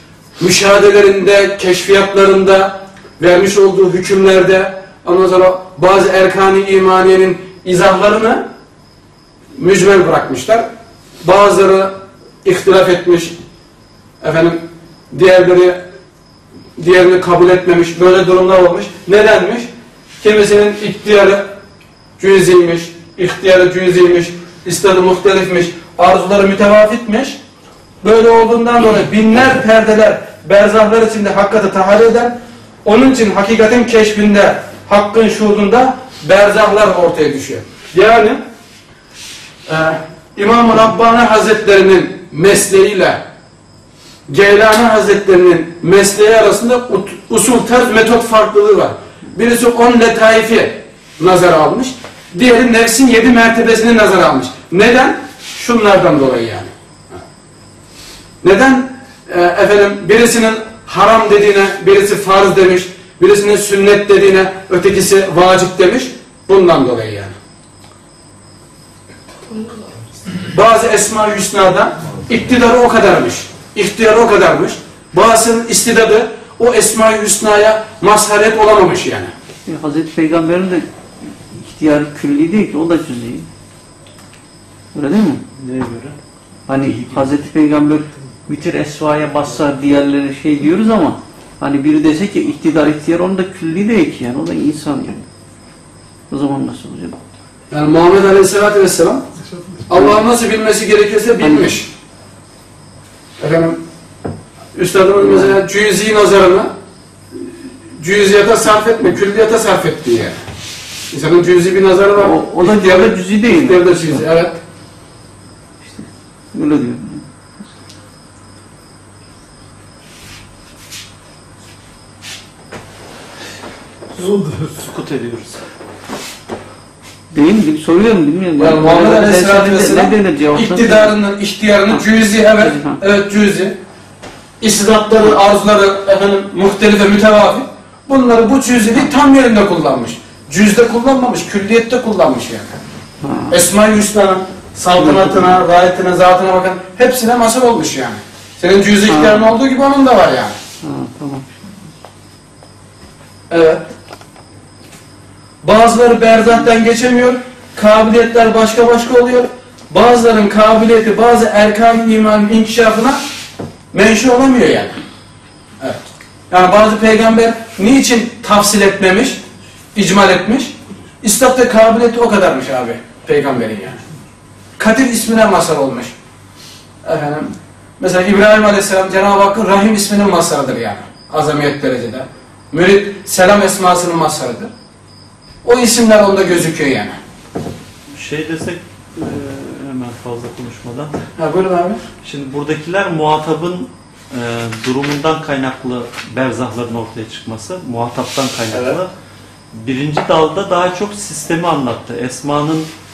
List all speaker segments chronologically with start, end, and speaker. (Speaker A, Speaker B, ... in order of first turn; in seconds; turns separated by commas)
Speaker A: 0.4-8.4, Speaker A: 9.6-10.7, Speaker A: 11.2-13.4, Speaker A: 14.2-15.8, Speaker A: 16.8-19.7, Speaker A: 20.2-21.5, Speaker A: 22.2-27.4, Speaker A: 28.0-38.4, Speaker A: 39.7-43.2, Speaker A: 44.3-56.7, Speaker A: 58.4-67.4, Speaker A: 70.5-79.3, Speaker B: 79.7-80.9, Speaker B: 81.5-83.5, Speaker B: 84.9-85.4, Speaker C: 85.6-86.2, Speaker B: 86.7-95.2, Speaker C: 86.8-87.3, Speaker B: 96.3-97.2, Speaker A: 97.7-99.2, Speaker A: 99.9-101.9, Speaker B: 101.4-101.7, Speaker A: 103.4-103.8, Speaker A: 104.8-106.7, Speaker B: 105.2-105.6, Speaker A: 108.0-110.4, Speaker A: 111.1-114.6, Speaker B: 112.2-114.3, Speaker B: 115.9-117.2, Speaker C: 124.2-125.6, Speaker B: 127.3-131.2, Speaker A: 128.6-133.8, Speaker B: 131.9-133.0, Speaker A: 134.6-142.8, Speaker B: 143.2-143.5, Speaker A: 143.5-150.6, Speaker B: 145.0-145.5, Speaker B: 149.1-149.4, Speaker B: 150.8-151.6, Speaker A: 153.5-153.8, Speaker A: 155.6-163.2, Speaker A: 163.9-165.0, Speaker A: 165.8-169.4, Speaker A: 169.9-174.0, Speaker A: 174.8-176.1, Speaker A: 177.0-184.7, Speaker A: 185.6-187.2, Speaker C: 188.1-191.2, Speaker A: 191.4-192.0, Speaker C: 192.2-199.1, Speaker C: 199.7-202.9